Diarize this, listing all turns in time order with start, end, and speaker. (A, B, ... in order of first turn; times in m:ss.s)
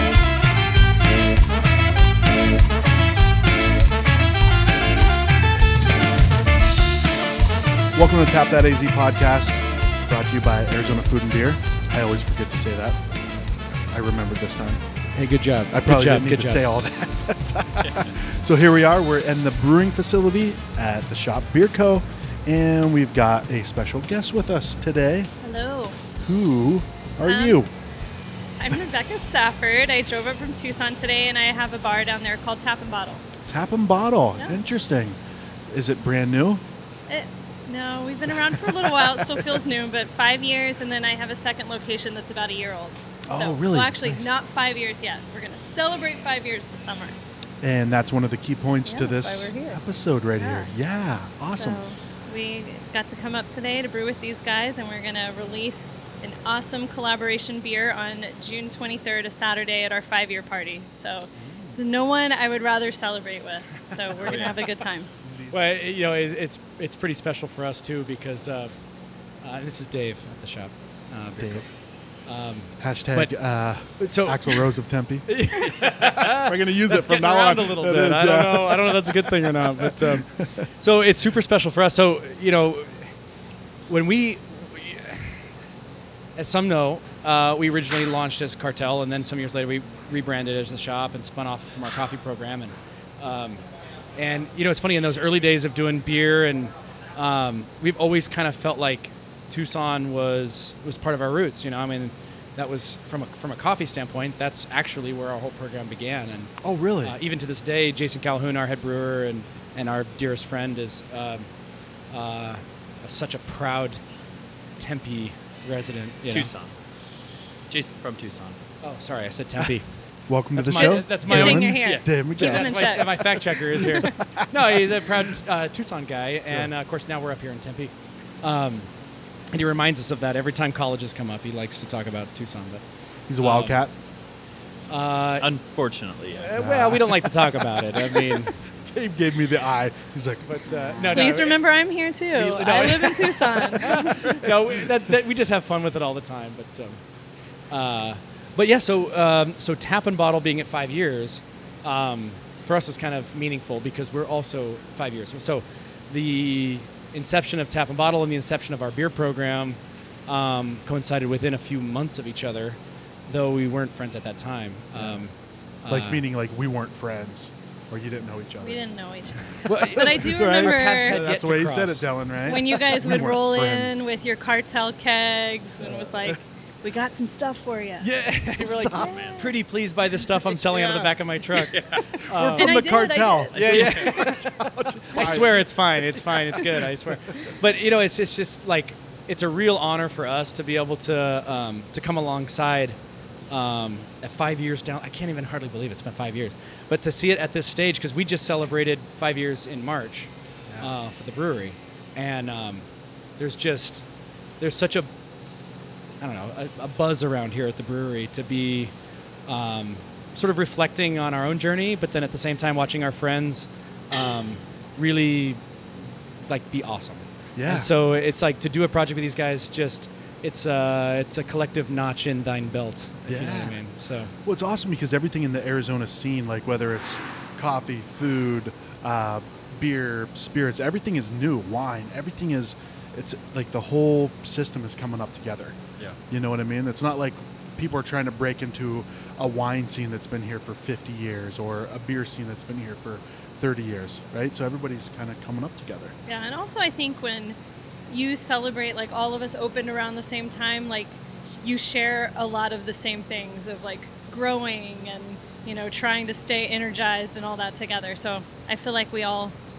0:07.9-0:13.0 A
0:13.9-0:14.8 A
0:15.2-0:16.7 B
0:15.7-0:25.3 A
0:25.4-0:26.0 C
0:26.2-0:27.7 A
0:27.2-0:27.6 C
0:28.6-0:33.2 C
0:33.5-0:35.2 A
0:35.7-0:36.6 A
0:37.1-0:47.2 C
0:38.3-0:39.5 A
0:43.3-0:44.4 A
0:47.6-0:51.8 A
0:48.9-0:49.8 C
0:50.4-0:50.7 C
0:51.5-1:05.1 C
1:01.4-1:01.8 B
1:04.2-1:04.7 D
1:05.2-1:05.7 A
1:05.5-1:08.7 B
1:09.4-1:11.7 B
1:11.4-1:11.7 A
1:12.3-1:13.3 B
1:12.8-1:20.4 A
1:14.0-1:14.7 B
1:15.3-1:23.1 B
1:23.9-1:25.4 B
1:26.4-1:33.6 B
1:34.2-1:51.5 B
1:46.6-1:47.2 A
1:52.1-1:54.0 B
1:54.8-1:56.5 B
1:56.3-1:56.7 D
1:57.7-1:58.6 D
1:58.8-1:59.8 B
2:00.3-2:05.2 A
2:00.5-2:01.8 B
2:00.7-2:03.2 C
2:02.4-2:08.9 B
2:03.8-2:04.1 C
2:09.5-2:12.8 B
2:13.3-2:13.9 A
2:13.4-2:13.8 B
2:14.9-2:15.5 B
2:15.4-2:16.5 D
2:16.4-2:18.5 B
2:16.6-2:21.3 A
2:20.4-2:21.6 B
2:21.1-2:24.3 C
2:22.3-2:27.0 B
2:27.7-2:46.2 B
2:45.9-2:48.8 A
2:48.6-2:51.2 C
2:49.6-2:52.8 B
2:49.7-2:54.0 A
2:52.4-2:58.1 C
2:55.8-2:56.4 A
2:58.0-3:02.8 B
2:58.4-2:59.3 A
2:58.8-2:59.4 C
2:59.0-2:59.5 D
3:00.4-3:01.1 A
3:01.6-3:02.1 D
3:02.3-3:07.4 A
3:02.3-3:03.9 C
3:03.5-3:04.6 B
3:05.1-3:13.0 B
3:13.5-3:22.9 B
3:23.4-3:24.0 B
3:24.6-3:25.1 B
3:26.2-3:28.9 B
3:29.5-3:35.6 B
3:36.5-3:44.3 B
3:37.6-3:37.9 A
3:43.3-3:43.8 A
3:44.4-3:55.8 A
3:56.3-4:06.1 A
4:06.3-4:07.6 C
4:08.1-4:19.6 C